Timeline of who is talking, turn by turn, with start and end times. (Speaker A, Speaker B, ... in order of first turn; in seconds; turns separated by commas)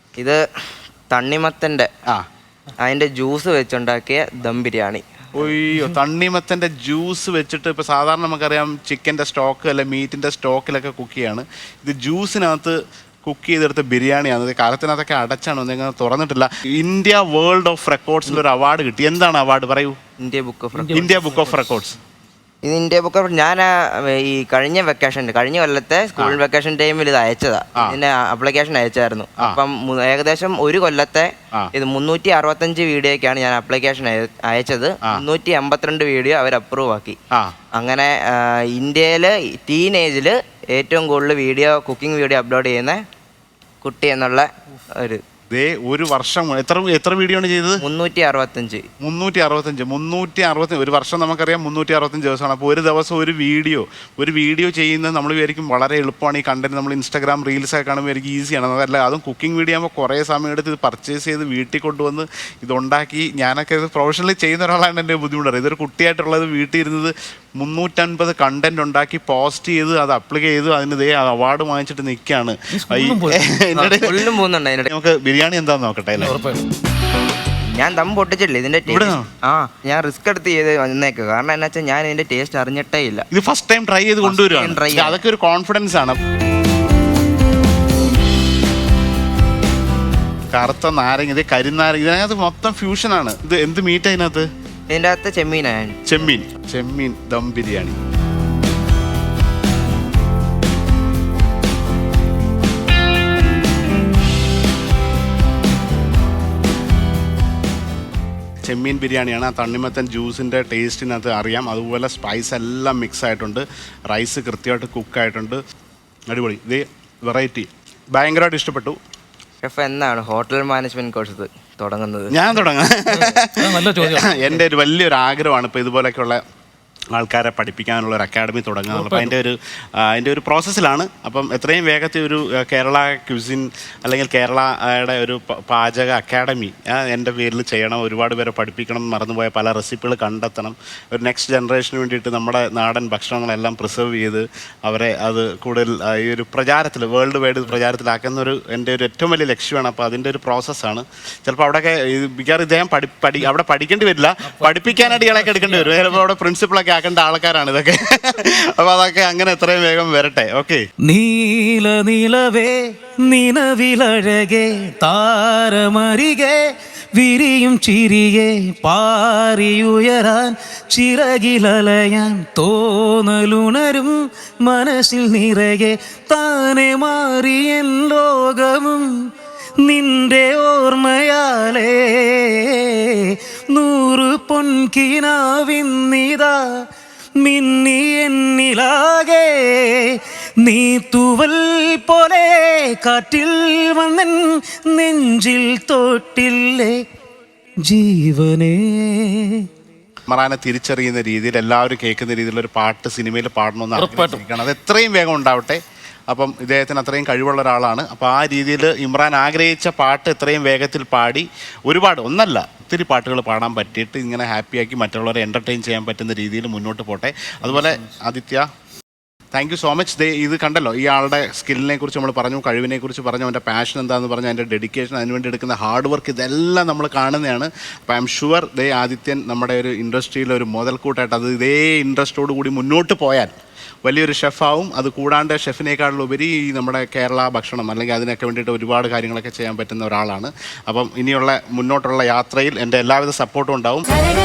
Speaker A: 0.2-0.5, Speaker A: 1.1-1.9, Speaker A: 2.8-5.0, Speaker B: 5.4-20.0, Speaker A: 20.2-21.2, Speaker C: 20.8-21.5, Speaker B: 20.9-22.0, Speaker A: 22.6-37.2, Speaker A: 37.7-43.0, Speaker A: 43.8-45.2, Speaker B: 45.5-47.8, Speaker A: 47.8-48.9, Speaker B: 49.0-76.4, Speaker C: 72.7-73.5, Speaker A: 73.8-74.9, Speaker C: 76.2-76.6, Speaker A: 77.7-83.3, Speaker B: 78.9-79.3, Speaker B: 83.3-86.2, Speaker A: 84.2-85.2, Speaker B: 90.5-94.5, Speaker A: 94.9-96.0, Speaker B: 96.1-98.0, Speaker B: 108.7-115.6, Speaker B: 116.3-119.0, Speaker A: 119.6-122.4, Speaker B: 122.3-126.4, Speaker C: 123.5-124.5, Speaker B: 127.1-160.8, Speaker C: 128.9-129.3, Speaker C: 154.5-156.1, Speaker C: 161.1-166.6, Speaker C: 167.2-179.1, Speaker C: 179.8-186.6, Speaker C: 187.4-197.0, Speaker C: 197.8-199.7, Speaker B: 200.3-218.7, Speaker C: 204.0-204.4, Speaker B: 219.5-233.5, Speaker B: 234.1-244.1